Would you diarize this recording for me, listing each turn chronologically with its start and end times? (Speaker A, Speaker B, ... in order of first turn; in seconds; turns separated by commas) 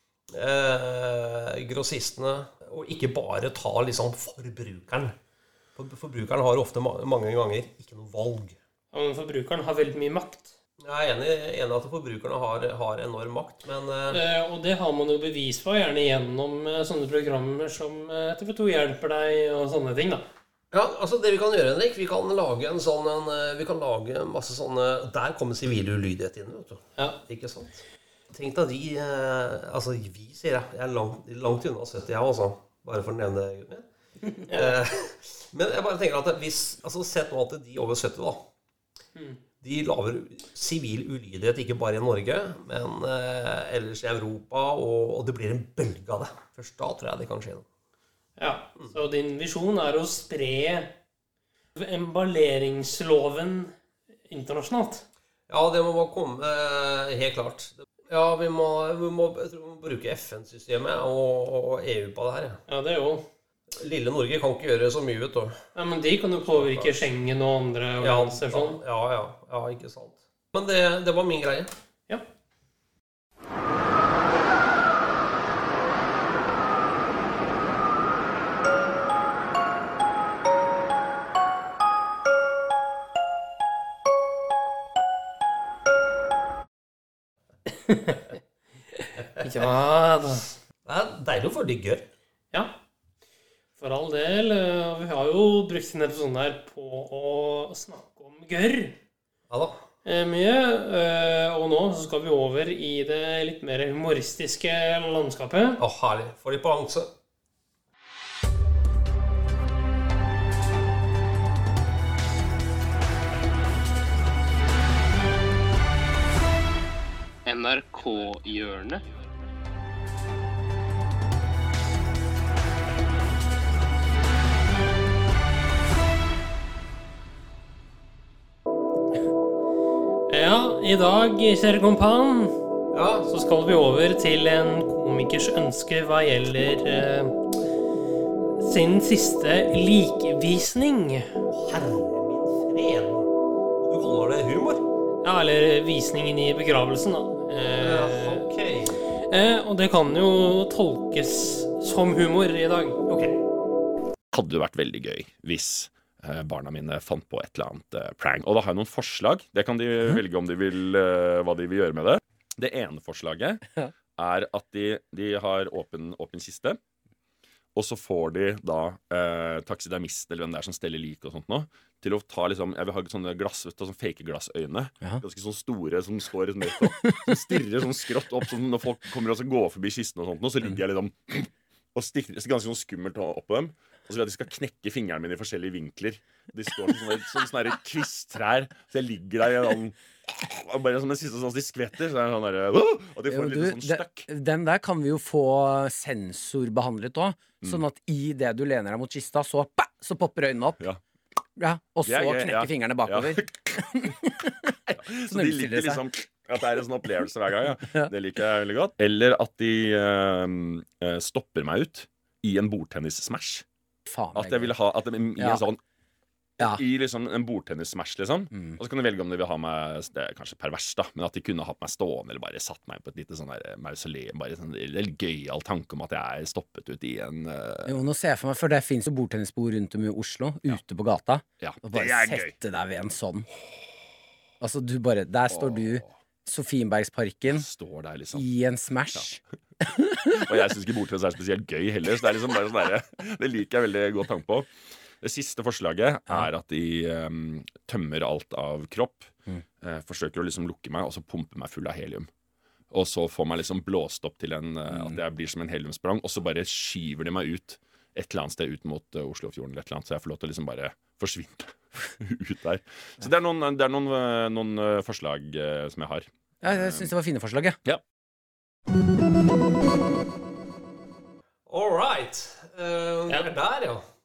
Speaker A: 0.3-5.1, Speaker A: 5.8-8.6, Speaker B: 8.9-10.5, Speaker A: 10.8-14.2, Speaker B: 14.1-20.2, Speaker A: 20.7-33.8, Speaker B: 34.2-34.8, Speaker A: 34.5-38.4, Speaker A: 39.6-47.6, Speaker B: 48.4-50.9, Speaker B: 51.8-53.7, Speaker B: 54.3-55.0, Speaker A: 55.5-62.6, Speaker B: 62.7-63.2, Speaker A: 63.8-65.6, Speaker B: 65.7-68.8, Speaker A: 66.4-67.1, Speaker A: 68.0-71.7, Speaker B: 87.7-88.3, Speaker B: 88.9-90.5, Speaker A: 90.8-92.1, Speaker B: 93.8-99.0, Speaker A: 99.5-99.8, Speaker B: 100.0-105.8, Speaker A: 105.8-107.1, Speaker B: 117.5-119.0, Speaker B: 130.3-132.6, Speaker A: 132.9-133.3, Speaker B: 133.3-137.4, Speaker B: 138.6-141.4, Speaker A: 141.5-144.8, Speaker B: 145.2-148.4, Speaker A: 147.8-149.0, Speaker B: 149.3-153.0, Speaker A: 153.1-153.3, Speaker C: 154.3-166.8, Speaker C: 167.7-194.3, Speaker D: 177.0-177.4, Speaker D: 193.3-200.8, Speaker D: 201.6-204.5, Speaker C: 202.0-204.1, Speaker C: 204.9-213.6, Speaker D: 205.3-206.0, Speaker D: 214.1-214.7, Speaker C: 214.3-215.8, Speaker D: 215.4-215.6, Speaker C: 216.6-228.0, Speaker D: 227.8-233.4, Speaker C: 231.6-232.6, Speaker D: 234.6-237.7, Speaker C: 235.5-236.1, Speaker C: 237.5-238.4, Speaker D: 238.3-240.4, Speaker C: 240.3-244.7, Speaker C: 245.2-252.3, Speaker C: 252.9-267.1, Speaker D: 266.6-267.8, Speaker A: 271.7-274.0